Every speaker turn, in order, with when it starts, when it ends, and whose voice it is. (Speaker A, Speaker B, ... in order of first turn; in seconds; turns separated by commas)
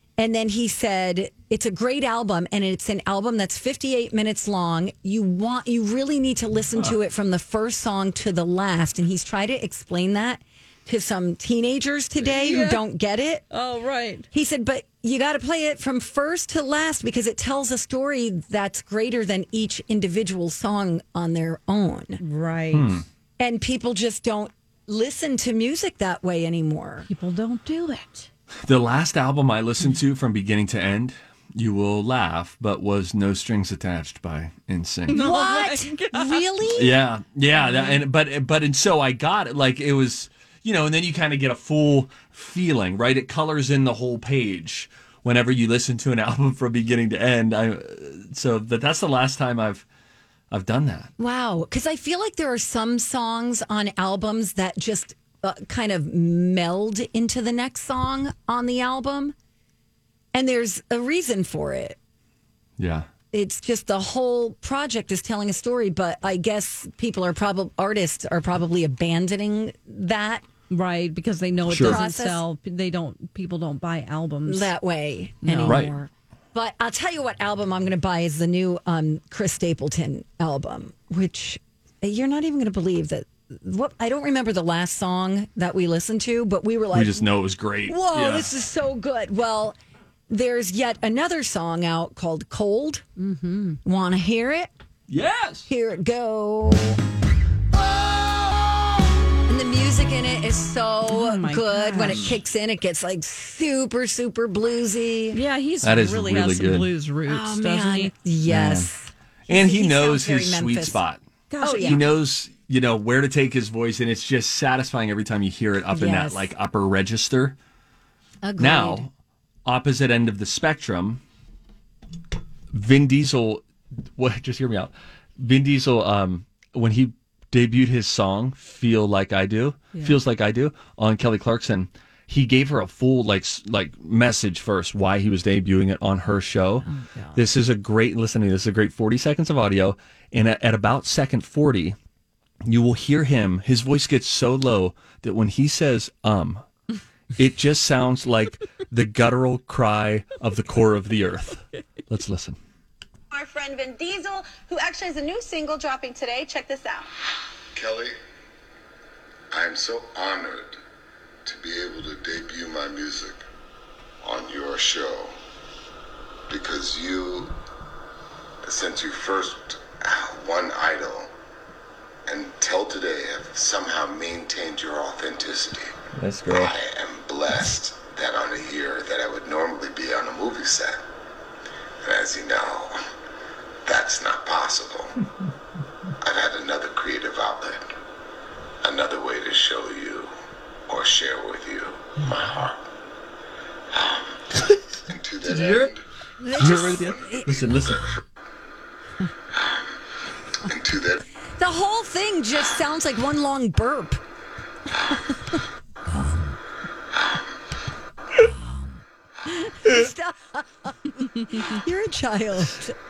Speaker A: 0.2-13.4, Speaker B: 12.2-12.8, Speaker B: 13.5-14.3, Speaker A: 14.3-22.2, Speaker B: 22.2-22.9, Speaker C: 22.7-23.0, Speaker A: 23.4-27.1, Speaker B: 27.1-28.3, Speaker C: 28.6-35.2, Speaker B: 35.1-36.4, Speaker A: 35.1-37.0, Speaker C: 36.8-49.8, Speaker B: 37.6-38.0, Speaker C: 50.5-51.1, Speaker A: 51.2-59.3, Speaker A: 60.3-62.0, Speaker C: 62.8-63.1, Speaker A: 63.3-70.4, Speaker B: 70.7-74.7, Speaker C: 71.7-72.0, Speaker A: 71.7-72.4, Speaker A: 74.5-87.3, Speaker B: 75.4-75.8, Speaker C: 75.7-75.9, Speaker C: 86.9-88.5, Speaker A: 87.8-89.8, Speaker A: 90.3-93.0, Speaker B: 93.2-93.8, Speaker A: 93.8-94.7, Speaker C: 95.1-95.7, Speaker A: 95.7-97.0, Speaker A: 97.7-105.4, Speaker B: 101.1-102.2, Speaker B: 105.3-108.1, Speaker C: 105.8-106.9, Speaker A: 107.3-111.0, Speaker C: 108.5-108.9, Speaker C: 109.5-111.2, Speaker B: 111.5-112.0, Speaker A: 111.6-112.0, Speaker C: 111.8-117.5, Speaker A: 115.9-116.5, Speaker A: 118.4-119.0, Speaker C: 118.6-119.1, Speaker C: 119.7-121.2, Speaker C: 122.7-123.6, Speaker C: 124.2-141.9, Speaker A: 136.8-137.4, Speaker C: 142.6-146.6, Speaker C: 147.4-152.6, Speaker D: 153.3-157.1, Speaker E: 157.7-158.1, Speaker E: 159.5-160.8, Speaker E: 161.4-163.4, Speaker E: 164.2-165.3, Speaker E: 166.5-167.5, Speaker E: 168.6-171.3, Speaker E: 172.3-181.0, Speaker C: 176.1-176.7, Speaker E: 182.0-183.0, Speaker E: 183.8-185.1, Speaker E: 186.2-187.8, Speaker E: 188.8-190.3, Speaker E: 190.9-192.8, Speaker E: 193.9-196.0, Speaker C: 195.5-195.9, Speaker A: 196.4-197.7, Speaker C: 196.6-198.1, Speaker E: 196.8-197.9, Speaker E: 199.5-200.0, Speaker E: 200.6-201.2, Speaker A: 201.6-204.2, Speaker E: 207.1-207.5, Speaker A: 209.4-213.0